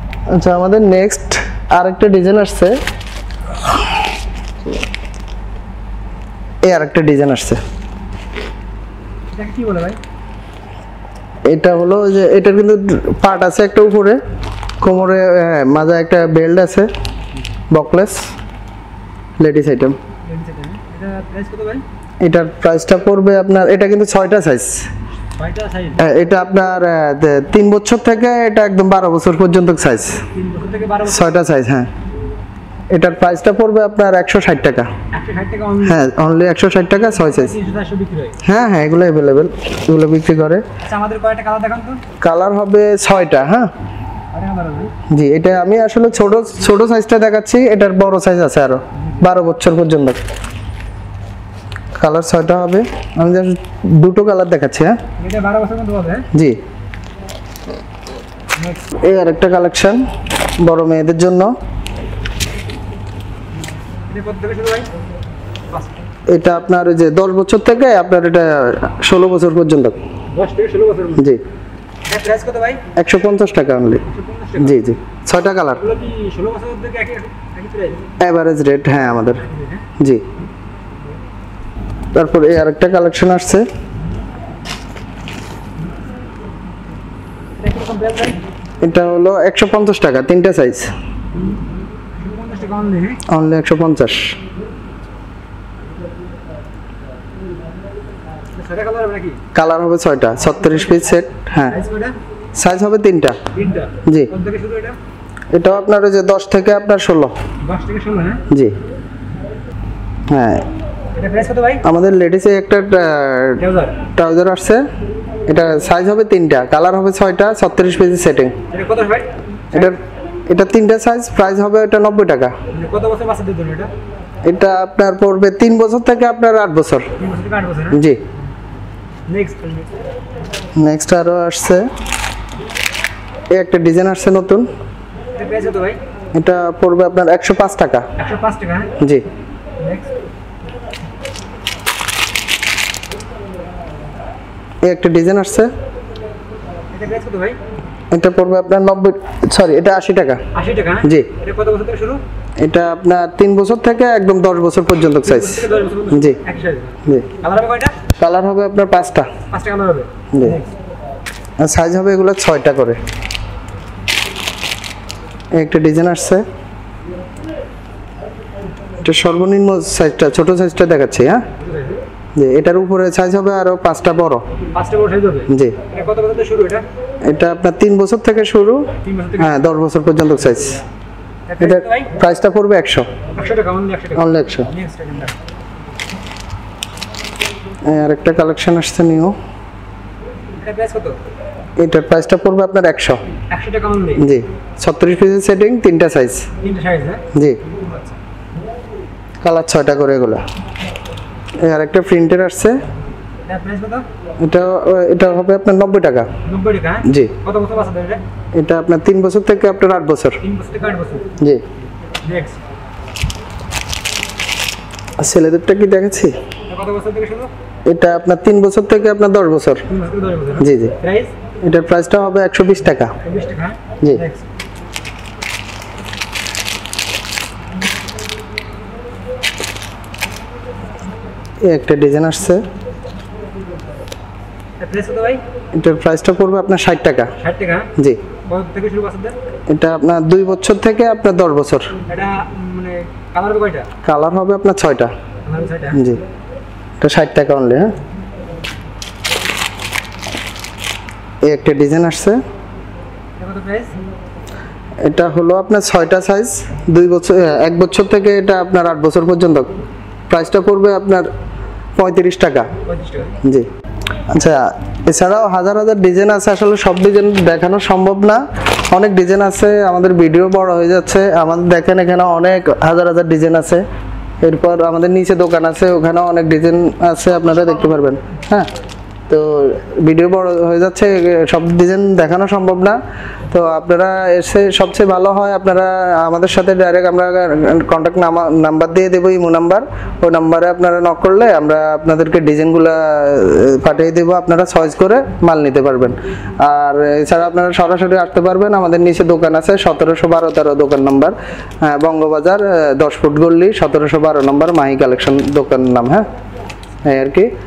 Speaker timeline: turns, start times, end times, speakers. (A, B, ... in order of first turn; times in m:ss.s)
0:00.3-0:02.7 A
0:06.6-0:07.6 A
0:09.3-0:10.0 B
0:11.4-0:14.2 A
0:14.8-0:16.9 A
0:17.7-0:18.2 A
0:19.4-0:20.0 A
0:20.2-0:21.8 B
0:22.2-0:24.9 A
0:25.4-0:26.0 B
0:26.0-0:30.2 A
0:30.3-0:31.4 B
0:31.0-0:31.9 A
0:32.9-0:34.9 A
0:35.1-0:36.0 B
0:35.8-0:37.5 A
0:37.0-0:38.4 B
0:38.4-0:40.6 A
0:40.8-0:42.0 B
0:42.2-0:43.7 A
0:44.3-0:44.9 B
0:45.1-0:50.2 A
0:49.0-0:49.4 B
0:51.9-0:55.0 A
0:55.2-0:56.3 B
0:56.3-0:56.6 A
0:58.6-0:58.9 B
0:58.9-1:00.0 A
1:00.6-1:01.5 A
1:04.1-1:04.9 B
1:05.7-1:06.0 B
1:06.3-1:10.0 A
1:10.3-1:11.2 B
1:11.2-1:11.4 A
1:12.0-1:12.8 B
1:12.9-1:14.0 A
1:14.0-1:14.8 B
1:14.6-1:15.8 A
1:15.8-1:18.0 B
1:18.2-1:19.4 A
1:19.4-1:19.8 B
1:22.1-1:23.7 A
1:27.6-1:28.4 B
1:28.8-1:30.9 A
1:32.2-1:33.2 B
1:33.3-1:34.3 A
1:38.5-1:39.4 B
1:39.5-1:41.8 A
1:40.4-1:42.2 B
1:42.6-1:43.4 A
1:43.5-1:45.0 B
1:44.0-1:44.3 A
1:45.5-1:47.3 A
1:47.6-1:48.4 B
1:48.5-1:48.8 A
1:50.3-1:50.6 A
1:51.1-1:51.8 B
1:51.8-1:54.8 A
1:53.6-1:54.0 B
1:55.5-1:58.6 A
1:58.7-1:59.9 B
1:59.7-2:02.5 A
2:02.7-2:03.9 B
2:04.4-2:07.1 A
2:07.2-2:08.0 B
2:07.9-2:08.2 A
2:09.3-2:10.2 B
2:10.8-2:11.9 A
2:13.5-2:14.7 A
2:15.3-2:16.0 B
2:16.3-2:18.0 A
2:18.2-2:18.9 B
2:19.8-2:20.1 B
2:24.8-2:25.7 A
2:26.9-2:27.6 B
2:28.1-2:30.4 A
2:30.5-2:32.2 B
2:31.0-2:31.3 A
2:32.6-2:36.4 A
2:35.2-2:37.9 B
2:38.2-2:39.3 A
2:39.5-2:40.7 B
2:40.3-2:40.6 A
2:41.6-2:43.0 A
2:45.5-2:46.4 A
2:49.0-2:51.4 A
2:51.6-2:52.0 B
2:52.3-2:54.4 A
2:54.7-2:56.8 B
2:55.5-2:55.8 A
2:57.2-3:00.8 A
2:59.0-2:59.6 B
3:01.5-3:02.1 B
3:01.6-3:03.1 A
3:03.3-3:05.3 B
3:04.1-3:04.7 A
3:07.8-3:09.3 A
3:10.6-3:11.2 B
3:11.8-3:13.2 A
3:13.5-3:14.2 B
3:14.2-3:16.5 A
3:16.6-3:18.2 B
3:17.3-3:17.6 A
3:19.4-3:20.4 A
3:21.6-3:22.8 A
3:23.4-3:24.0 B
3:24.4-3:26.3 A
3:26.4-3:28.2 B
3:27.0-3:27.3 A
3:28.5-3:30.4 A
3:30.4-3:31.3 B
3:31.4-3:31.6 A
3:32.2-3:32.6 B
3:35.2-3:36.3 A
3:36.7-3:37.5 B
3:37.8-3:39.8 A
3:39.9-3:41.3 B
3:40.6-3:41.0 A
3:41.6-3:43.1 A
3:43.2-3:44.4 B
3:51.6-3:52.6 A
3:54.8-3:55.4 B
3:55.7-3:57.3 A
3:57.4-3:57.9 B
3:58.5-3:59.4 B
3:59.7-4:01.9 A
4:02.0-4:03.9 B
4:04.0-4:05.1 A
4:05.4-4:06.0 B
4:05.9-4:06.2 A
4:07.0-4:07.9 A
4:11.4-4:12.4 A
4:13.4-4:13.9 B
4:15.0-4:21.3 A
4:22.0-4:22.7 A
4:22.8-4:23.4 B
4:24.3-4:33.8 A
4:34.4-4:38.7 A
4:39.3-4:43.0 A
4:43.5-5:06.2 A
5:07.0-5:07.5 A